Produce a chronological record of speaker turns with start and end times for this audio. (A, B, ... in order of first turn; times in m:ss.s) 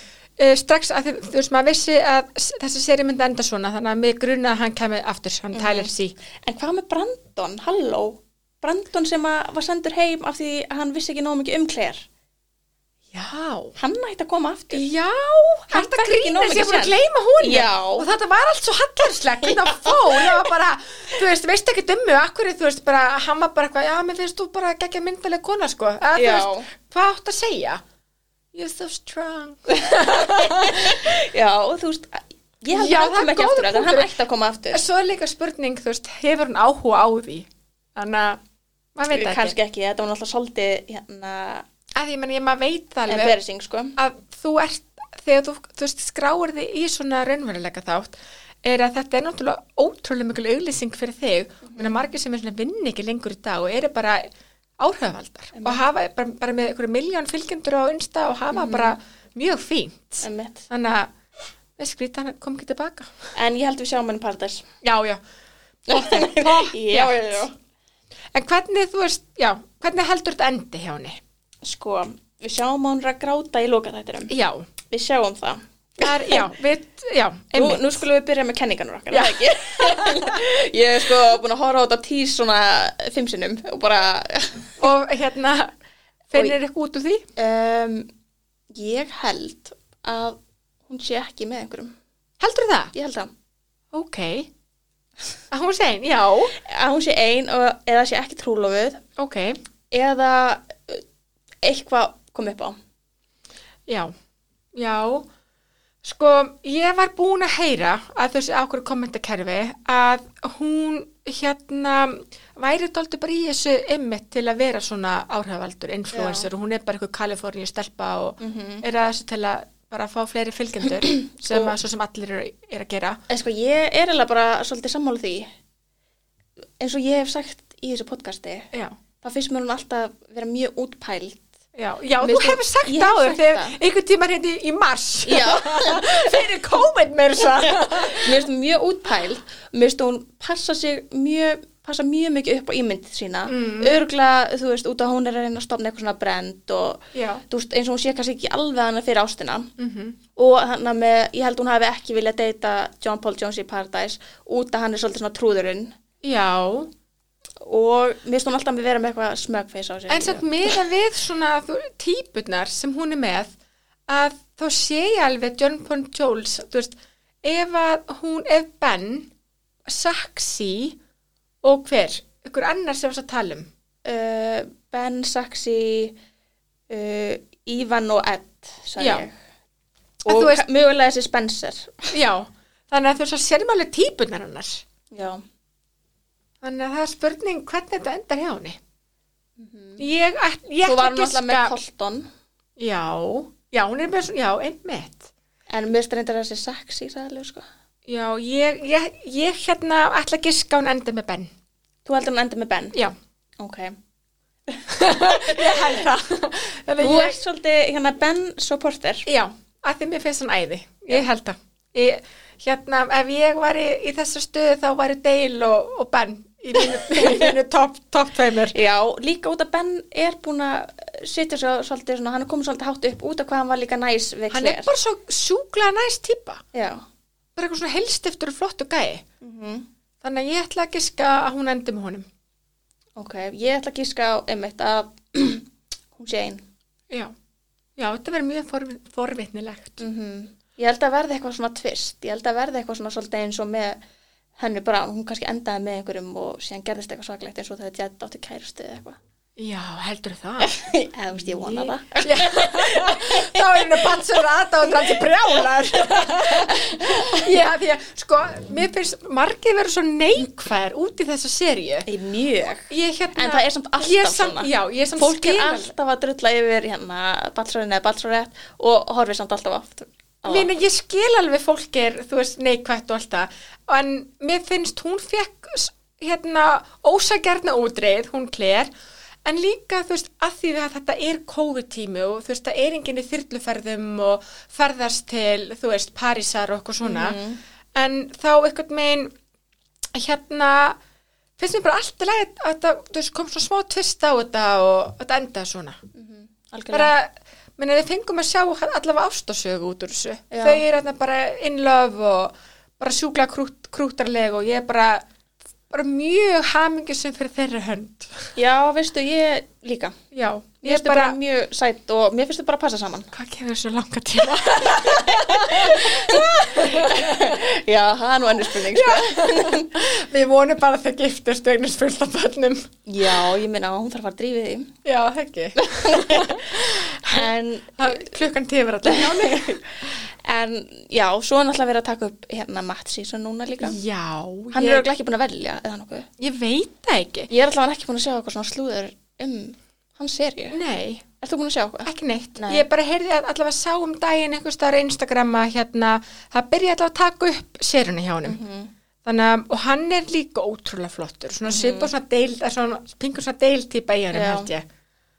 0:00.4-0:06.1 A
0:05.5-0:05.9 B
0:06.4-0:12.0 B
0:13.1-0:13.7 A
0:13.8-0:14.9 B
0:14.7-0:27.8 A
0:15.7-0:18.1 B
0:19.4-0:20.4 B
0:26.1-0:26.7 B
0:28.5-0:31.1 A
0:29.7-0:34.8 B
0:32.7-0:34.1 A
0:34.7-0:38.4 A
0:39.0-0:39.5 A
0:39.1-0:41.6 B
0:42.0-0:43.3 A
0:43.1-0:43.9 B
0:44.0-0:54.3 A
0:51.6-0:52.0 B
0:54.8-1:01.1 A
0:55.5-0:55.8 B
0:58.5-0:58.9 B
1:00.2-1:00.6 B
1:01.8-1:03.1 A
1:03.3-1:04.6 B
1:04.8-1:05.2 A
1:05.9-1:07.5 B
1:05.9-1:07.4 A
1:08.3-1:11.2 A
1:11.6-1:14.3 B
1:14.3-1:14.7 A
1:14.9-1:16.5 B
1:16.0-1:18.0 A
1:17.5-1:24.8 B
1:19.1-1:20.4 A
1:24.8-1:25.7 A
1:26.3-1:27.2 A
1:27.4-1:28.1 B
1:28.7-1:31.9 B
1:32.4-1:32.9 A
1:32.9-1:33.3 B
1:33.9-1:34.5 A
1:35.5-1:36.5 A
1:36.6-1:39.0 B
1:39.2-1:39.6 A
1:39.9-1:41.0 B
1:41.6-1:42.8 B
1:43.9-1:44.1 A
1:44.8-1:45.3 A
1:46.0-2:03.2 A
1:56.1-1:56.5 B
1:58.4-1:58.8 B
2:03.3-2:05.5 B
2:06.8-2:08.7 B
2:09.2-2:11.5 B
2:11.7-2:18.3 A
2:12.2-2:13.8 B
2:15.2-2:16.4 B
2:17.6-2:29.7 B
2:23.5-2:24.0 A
2:27.1-2:27.4 A
2:29.8-2:30.2 A
2:30.3-2:35.9 B
2:36.2-2:36.9 A
2:37.6-2:40.7 B
2:40.1-2:43.5 A
2:44.1-2:49.3 A
2:49.8-2:51.0 A
2:51.6-2:53.7 A
2:54.0-2:56.2 B
2:56.9-2:59.3 B
2:59.0-2:59.2 A
3:00.2-3:00.6 A
3:00.2-3:02.1 B
3:02.1-3:04.8 A
3:05.1-3:05.4 B
3:06.6-3:08.8 A
3:09.6-3:10.0 B
3:10.0-3:11.7 A
3:10.8-3:12.3 B
3:12.8-3:15.3 A
3:15.7-3:17.6 B
3:18.1-3:21.5 A
3:22.0-3:23.0 B
3:23.6-3:24.0 B
3:24.7-3:26.0 B
3:24.9-3:27.4 A
3:27.0-3:29.2 B
3:29.3-3:38.7 A
3:36.8-3:37.5 B
3:38.7-3:44.9 B
3:44.5-3:46.6 A
3:46.7-3:47.0 B
3:47.6-3:49.2 A
3:49.4-3:49.9 B
3:50.2-3:52.2 A
3:53.2-3:56.6 B
3:58.0-4:00.0 A
4:00.0-4:04.0 B
4:04.6-4:09.2 B
4:09.6-4:10.7 A
4:10.6-4:13.6 B
4:11.5-4:22.1 A
4:16.0-4:17.5 B
4:22.1-4:30.7 B
4:22.9-4:25.9 A
4:30.4-4:38.9 A
4:39.4-4:47.4 A
4:47.0-4:47.6 B
4:47.9-4:49.3 A
4:50.1-4:51.0 A
4:51.6-4:56.0 A
4:56.1-4:57.1 B
4:56.9-5:05.2 A
5:00.5-5:00.8 B
5:05.9-5:08.5 A
5:08.6-5:10.2 B
5:10.3-5:11.4 A
5:10.8-5:13.3 B
5:13.3-5:17.6 A
5:14.9-5:19.9 B
5:18.7-5:22.9 A
5:23.1-5:24.9 B
5:25.0-5:29.8 A
5:25.8-5:28.3 B
5:29.0-5:34.0 B
5:33.8-5:35.1 A
5:34.7-5:36.3 B
5:36.4-5:37.5 A
5:37.5-5:40.8 B
5:40.7-5:41.2 A
5:41.4-5:42.8 B
5:42.1-5:48.6 A
5:48.4-5:48.9 B
5:49.2-5:54.8 A
5:51.7-5:52.1 B
5:54.3-5:54.7 B